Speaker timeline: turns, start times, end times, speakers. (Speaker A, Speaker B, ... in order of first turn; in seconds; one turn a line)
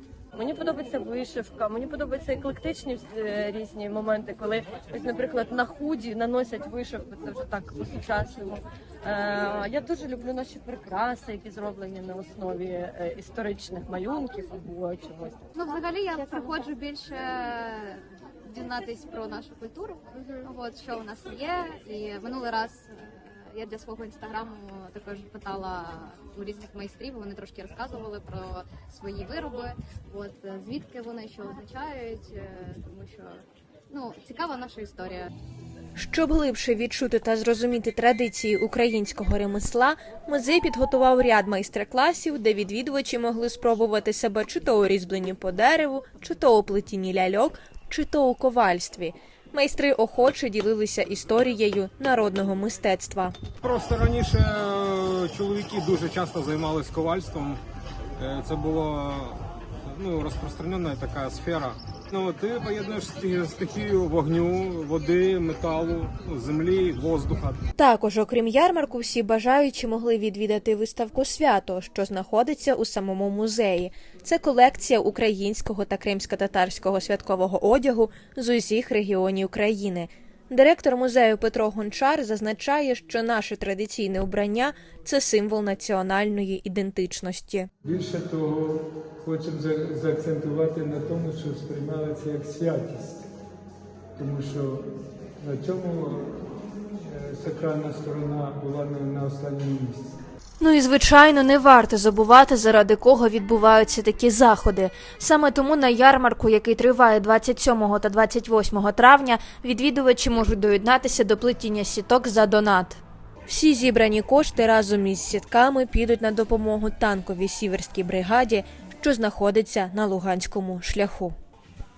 Speaker A: 0.3-15.4
Speaker B: 15.5-35.3
Speaker C: 36.0-53.3
Speaker D: 53.6-57.6
Speaker D: 58.2-67.6
Speaker C: 67.8-87.7
Speaker E: 87.8-93.2
Speaker E: 94.2-94.9
Speaker E: 95.4-100.2
Speaker C: 100.6-121.3